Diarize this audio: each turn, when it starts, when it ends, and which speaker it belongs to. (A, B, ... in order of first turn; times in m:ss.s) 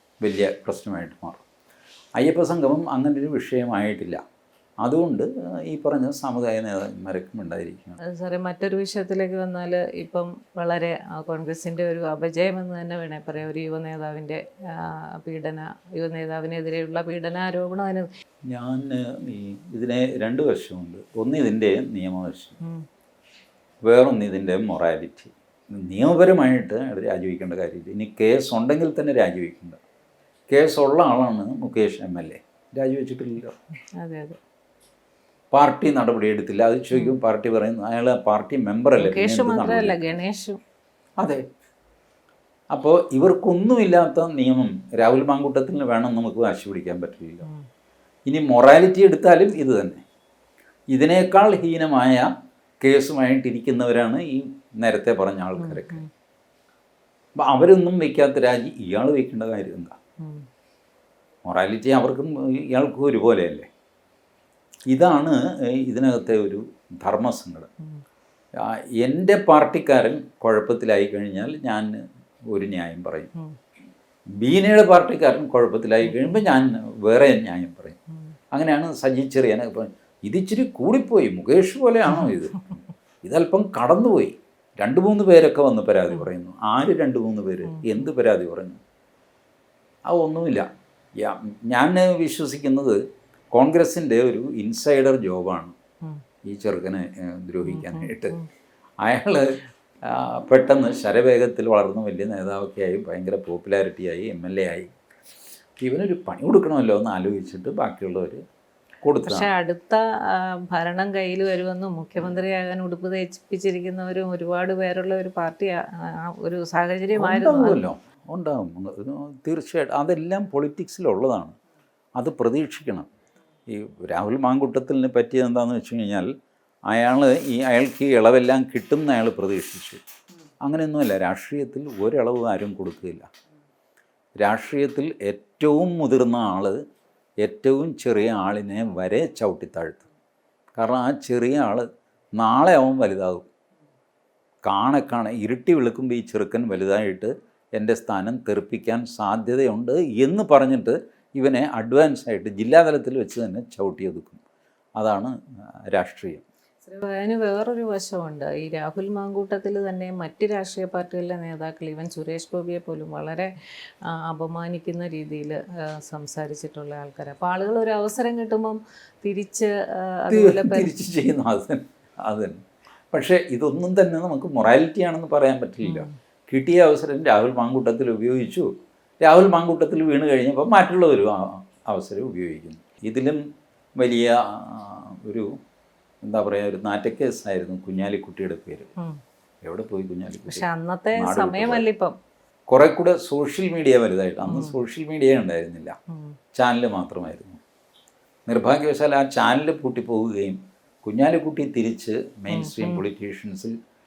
0:00.2-0:01.4 A
0:02.2-0:04.2 A
0:04.8-0:08.0 A
0:08.0-0:18.1 B
0:18.5-0:22.6 A
0:23.8-0:29.8 A
0:30.5-0:33.6 A
0:33.9-0:34.4 B
0:35.5-0:40.1 A
0:36.9-0:37.2 B
0:39.0-0:40.6 B
0:42.7-0:47.5 A
0:48.3-0:50.0 A
0:50.9-0:52.3 A
0:52.8-0:56.0 A
0:55.6-0:56.1 B
0:57.4-1:00.0 A
1:00.2-1:00.5 B
1:01.4-1:03.7 A
1:04.9-1:07.7 A
1:08.6-1:13.3 A
1:14.4-1:18.0 A
1:16.0-1:16.4 B
1:18.5-1:28.8 A
1:22.1-1:22.4 B
1:27.6-1:28.1 B
1:30.1-1:33.0 A
1:33.5-1:35.7 A
1:36.4-1:38.4 A
1:37.6-1:38.5 B
1:39.0-1:44.9 A
1:45.8-1:48.4 A
1:49.0-1:49.5 A
1:49.2-1:57.8 B
1:57.2-2:01.6 A
2:02.2-2:03.1 A
2:03.7-2:06.3 A
2:06.9-2:10.0 A
2:10.6-2:13.3 A
2:14.4-2:16.8 A
2:17.4-2:20.0 A
2:20.8-2:23.5 A
2:24.6-2:34.4 A
2:35.0-2:35.4 A
2:35.9-2:36.4 A
2:36.8-2:50.9 B
2:50.3-2:58.7 A
2:55.8-2:56.1 B
2:59.2-3:03.4 A
3:04.0-3:05.6 A
3:06.2-3:08.9 A
3:09.6-3:11.8 A
3:10.5-3:12.2 B
3:12.7-3:16.0 A
3:14.4-3:14.8 B
3:16.1-3:16.4 B
3:16.6-3:17.6 A
3:18.5-3:23.8 A
3:22.5-3:23.0 B